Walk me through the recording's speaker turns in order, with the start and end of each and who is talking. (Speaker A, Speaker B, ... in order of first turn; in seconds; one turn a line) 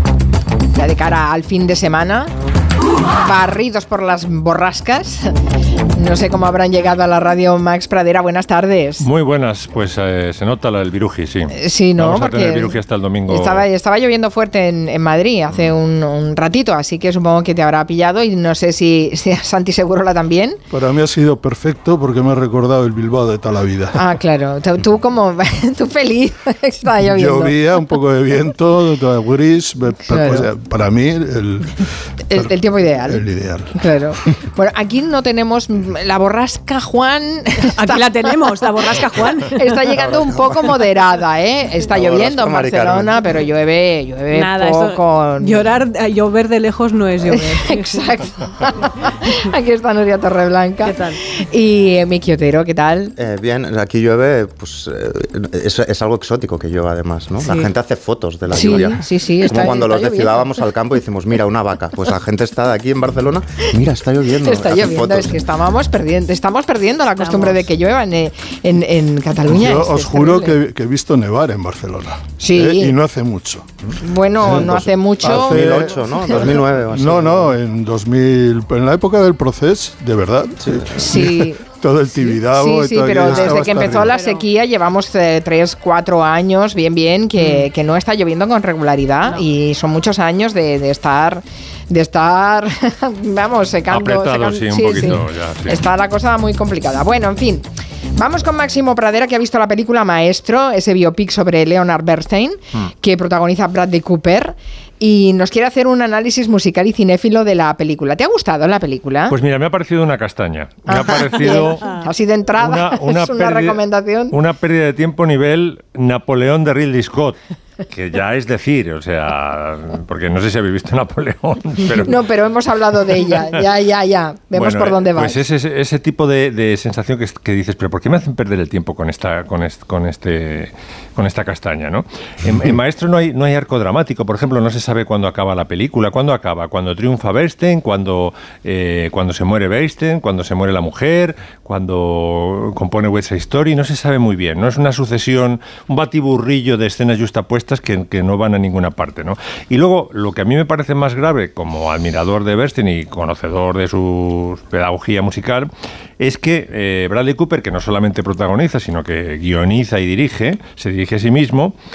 Speaker A: 0.8-2.3
Speaker A: 3.2-5.3
Speaker A: 6.0-9.1
Speaker B: 9.0-13.7
Speaker A: 11.6-12.8
Speaker A: 13.3-20.6
Speaker C: 20.7-24.0
Speaker A: 24.0-27.6
Speaker C: 27.0-33.7
Speaker A: 30.1-30.5
Speaker A: 32.3-33.2
Speaker A: 33.8-45.7
Speaker D: 37.8-39.9
Speaker E: 40.0-40.7
Speaker E: 41.9-43.2
Speaker D: 44.3-48.1
Speaker A: 47.3-48.5
Speaker A: 49.2-53.1
Speaker D: 50.9-51.2
Speaker E: 53.2-65.4
Speaker A: 57.4-57.7
Speaker A: 58.5-60.5
Speaker A: 64.4-70.5
Speaker D: 67.2-67.7
Speaker C: 69.5-73.7
Speaker A: 72.4-72.9
Speaker A: 74.0-76.5
Speaker C: 74.4-84.2
Speaker E: 74.4-77.5
Speaker E: 80.6-81.1
Speaker A: 81.0-81.6
Speaker A: 82.3-109.3
Speaker D: 84.0-84.5
Speaker D: 87.4-87.7
Speaker B: 93.9-95.8
Speaker B: 109.3-111.9
Speaker A: 110.9-114.3
Speaker B: 112.6-117.4
Speaker B: 117.9-122.1
Speaker A: 121.9-125.4
Speaker B: 124.5-155.7
Speaker B: 156.2-161.8